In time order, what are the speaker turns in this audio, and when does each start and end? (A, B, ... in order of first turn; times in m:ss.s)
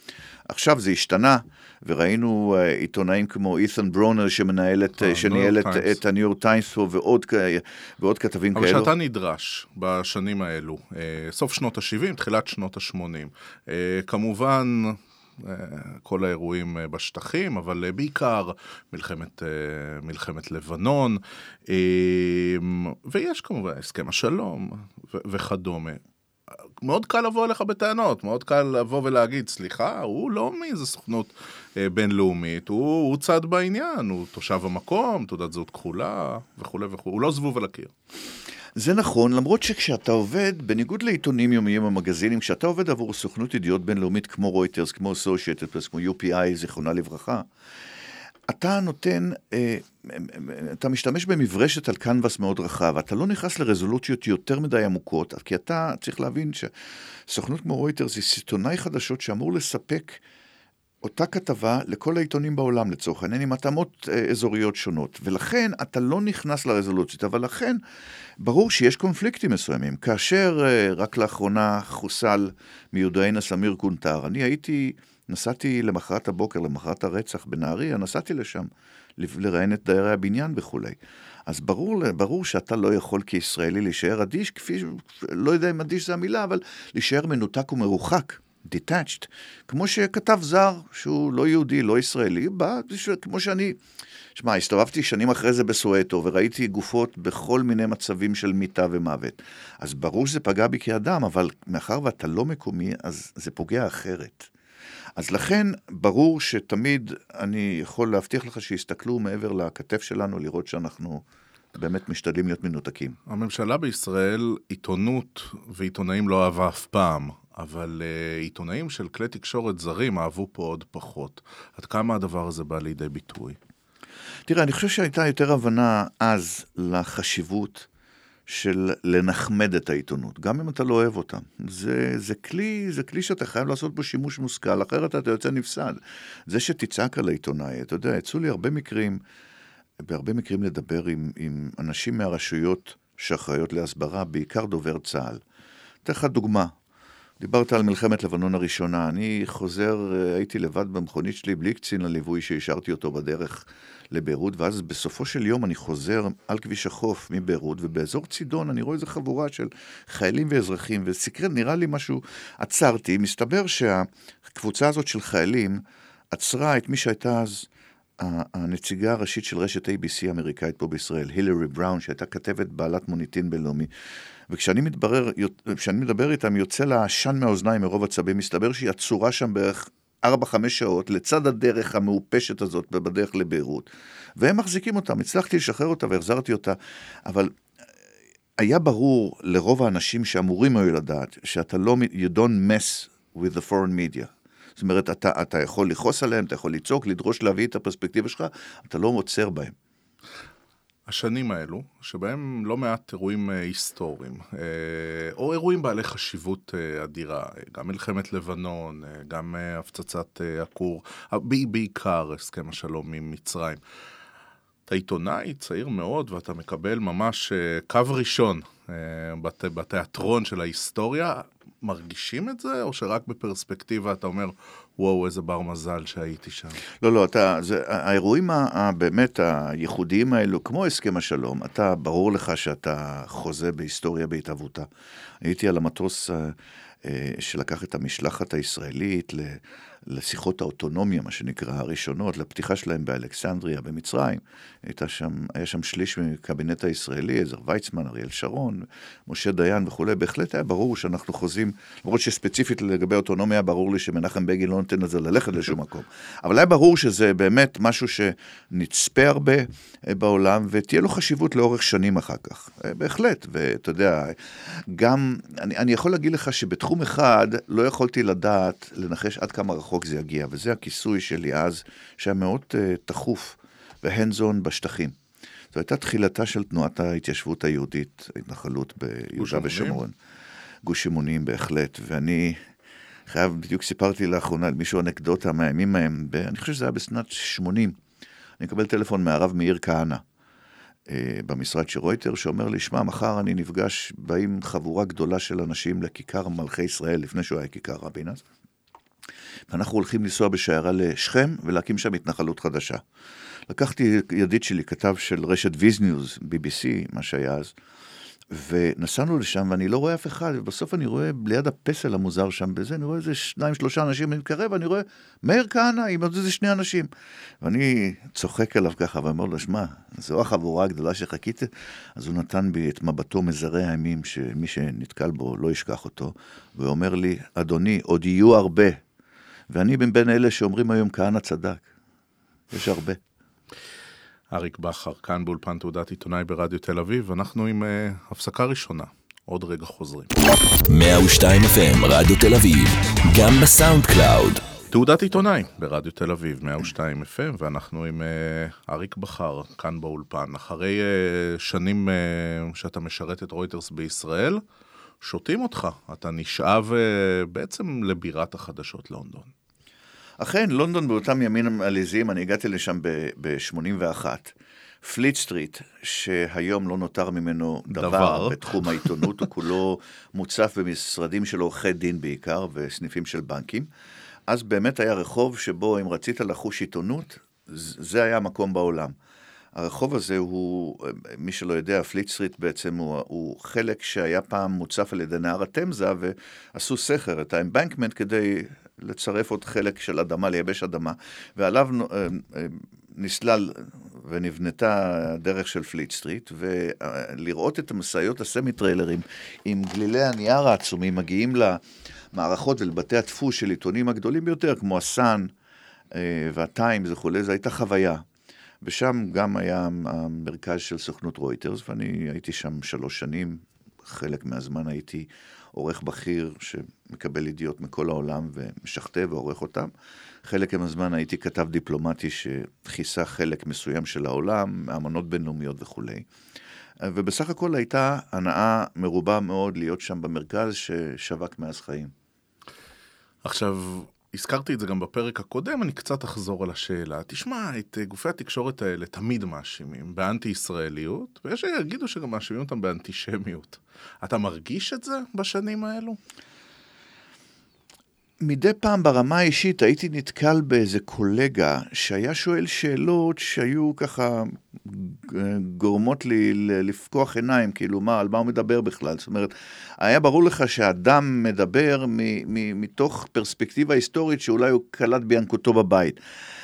0:00.5-0:08.9 A
0:05.0-0:06.0 B
0:08.5-0:37.9 B
0:38.8-0:47.4 A
0:48.5-0:56.7 A
0:57.3-1:00.2 A
1:01.0-1:07.8 A
1:08.4-1:33.8 A
1:34.4-1:44.5 A
1:45.2-1:51.2 A
1:51.7-1:53.2 A
1:53.3-2:03.6 B
2:04.5-2:07.9 A
2:08.5-2:19.2 A
2:20.0-2:25.4 A
2:26.0-2:26.7 A
2:27.4-2:45.8 A
2:46.3-2:47.7 A
2:48.2-2:53.9 A
2:54.5-3:07.5 A
3:08.6-3:19.7 A
3:21.0-3:33.8 B
3:34.9-3:46.8 B
3:47.0-3:54.9 A
3:55.4-4:35.2 A
4:35.7-4:40.1 A
4:39.4-4:40.0 B
4:40.8-4:42.6 A
4:43.3-4:48.0 A
4:48.6-4:50.2 A
4:51.1-4:58.4 A
4:59.7-5:03.0 A
5:03.7-5:07.7 A
5:08.5-5:17.1 A
5:17.6-5:29.0 A
5:29.7-5:31.8 A
5:32.7-5:33.2 A
5:34.5-5:40.3 B
5:40.9-5:44.7 C
5:44.9-5:54.6 B
5:55.2-5:59.5 B
6:00.4-6:13.9 A
6:08.0-6:09.3 B
6:14.5-6:19.1 A
6:19.7-6:45.5 A
6:46.1-6:48.2 A
6:48.8-6:59.9 A
7:00.4-7:06.2 A
7:07.0-7:12.1 A
7:13.4-7:26.2 B
7:28.4-7:46.2 A